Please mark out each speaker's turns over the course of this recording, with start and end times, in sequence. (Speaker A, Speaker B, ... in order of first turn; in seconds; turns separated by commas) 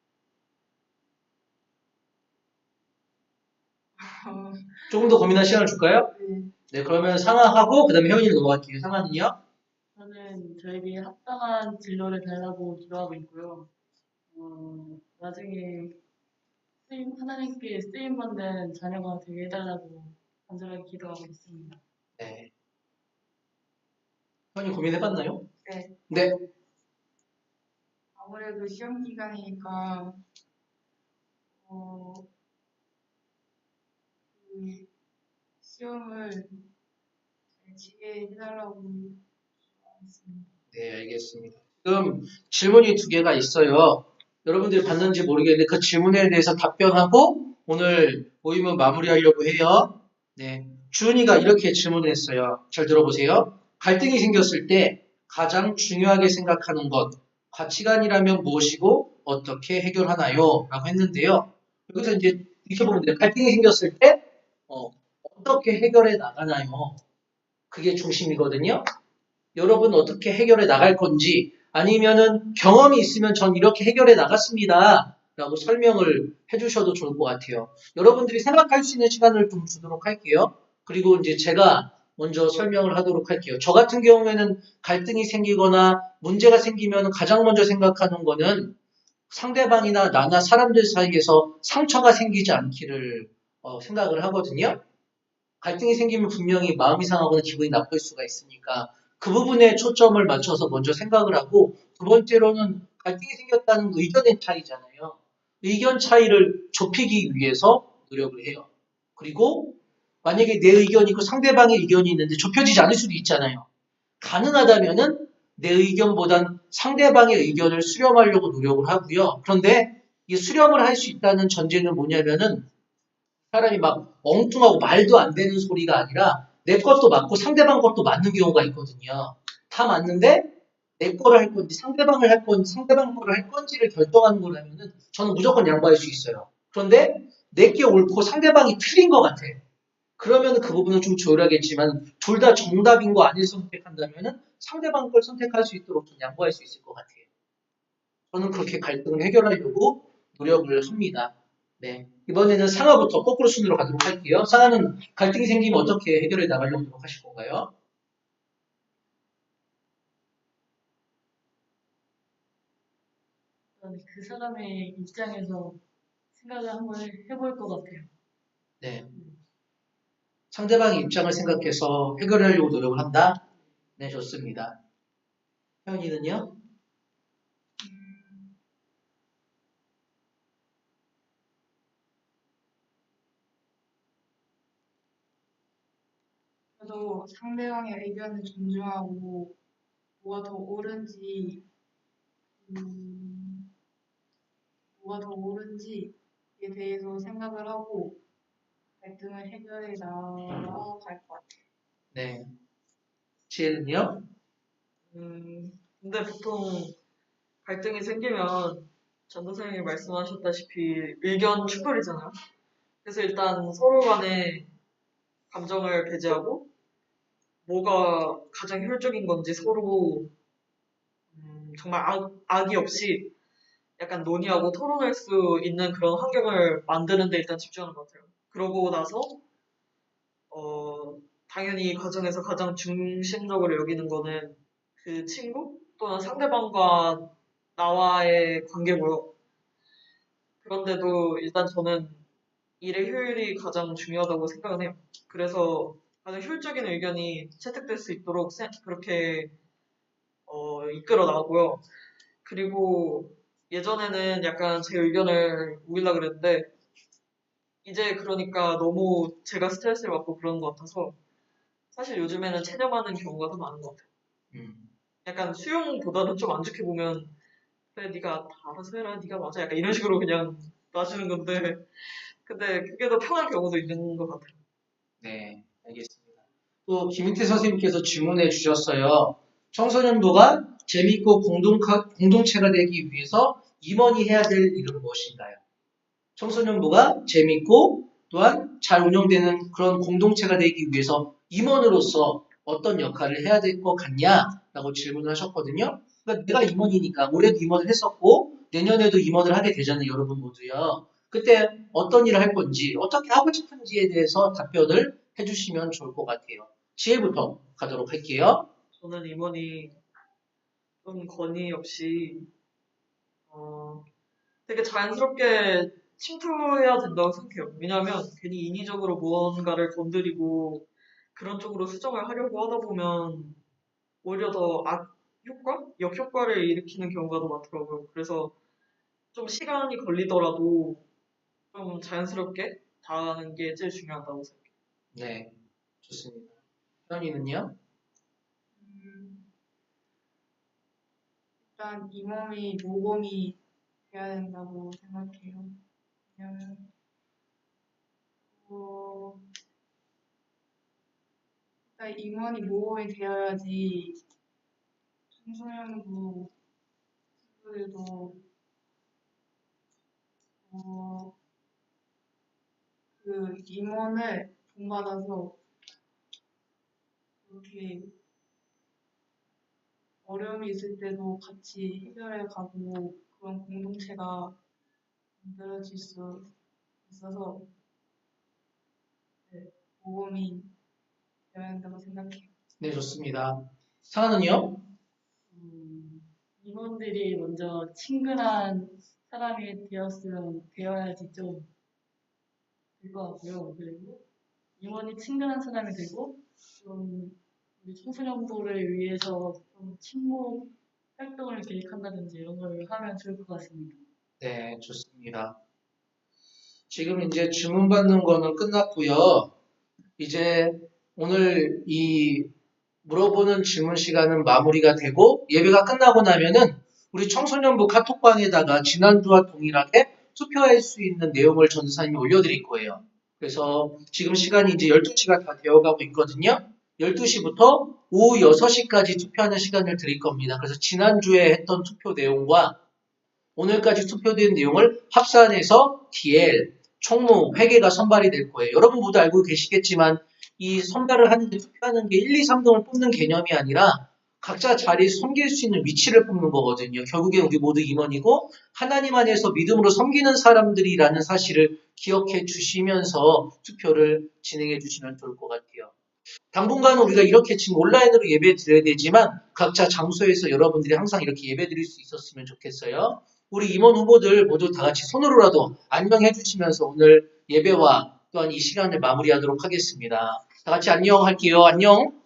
Speaker A: 4.0-5.2, Speaker B: 4.9-6.1, Speaker A: 6.1-6.5, Speaker B: 6.7-9.4, Speaker C: 9.9-13.7, Speaker C: 14.3-16.0, Speaker C: 16.9-21.8, Speaker B: 22.2-22.5, Speaker B: 24.5-25.5, Speaker A: 25.6-25.9, Speaker B: 26.1-26.4, Speaker A: 28.1-30.2, Speaker A: 31.6-32.3, Speaker A: 34.3-34.9, Speaker A: 35.6-36.6, Speaker A: 37.6-40.5, Speaker B: 40.7-67.0, Speaker B: 67.7-68.8, Speaker B: 69.5-88.8, Speaker B: 89.3-94.8, Speaker B: 95.6-113.7, Speaker B: 114.2-122.7, Speaker B: 123.5-139.6, Speaker B: 140.2-147.2, Speaker B: 148.3-157.7, Speaker C: 163.8-165.8, Speaker C: 166.3-168.1, Speaker B: 168.8-169.1, Speaker B: 170.5-173.4, Speaker B: 174.0-174.8, Speaker B: 175.8-176.5, Speaker A: 177.8-178.6, Speaker A: 186.8-189.6, Speaker A: 190.2-191.7, Speaker A: 192.6-193.7, Speaker A: 195.0-198.2, Speaker A: 199.0-201.6, Speaker B: 202.1-202.5, Speaker B: 203.5-204.3, Speaker D: 205.1-207.0, Speaker D: 207.6-212.3, Speaker D: 213.0-214.7, Speaker D: 215.5-216.7, Speaker D: 217.6-220.3, Speaker D: 221.3-223.3, Speaker D: 224.0-229.4, Speaker D: 230.5-239.3, Speaker D: 240.6-242.2, Speaker D: 242.8-249.5, Speaker D: 250.5-251.8, Speaker D: 252.4-256.7, Speaker D: 257.8-261.2, Speaker D: 261.9-264.1, Speaker B: 264.5-264.9, Speaker D: 265.2-267.3, Speaker D: 267.9-274.6, Speaker B: 275.2-276.3, Speaker B: 276.9-285.6, Speaker B: 286.4-308.7, Speaker D: 308.9-310.0, Speaker D: 311.0-312.5, Speaker D: 313.5-314.1, Speaker D: 314.7-323.6, Speaker D: 324.2-328.5, Speaker D: 329.3-331.0, Speaker D: 331.7-334.7, Speaker B: 335.1-336.5, Speaker B: 337.1-337.8, Speaker A: 338.7-339.5, Speaker A: 341.6-346.9, Speaker A: 348.5-349.4, Speaker A: 351.9-354.2, Speaker A: 355.3-356.5, Speaker A: 357.4-358.4, Speaker A: 360.6-361.3, Speaker A: 363.2-365.6, Speaker A: 367.4-368.1, Speaker A: 370.2-374.6, Speaker A: 375.4-376.5, Speaker A: 377.0-377.7, Speaker A: 379.5-380.7, Speaker A: 381.5-382.5, Speaker B: 382.8-384.8, Speaker C: 385.5-391.7, Speaker C: 393.0-394.2, Speaker C: 394.8-404.0, Speaker B: 404.4-405.6, Speaker B: 406.9-409.5, Speaker B: 410.2-412.5, Speaker B: 413.0-432.8, Speaker B: 433.6-455.9, Speaker B: 456.5-472.2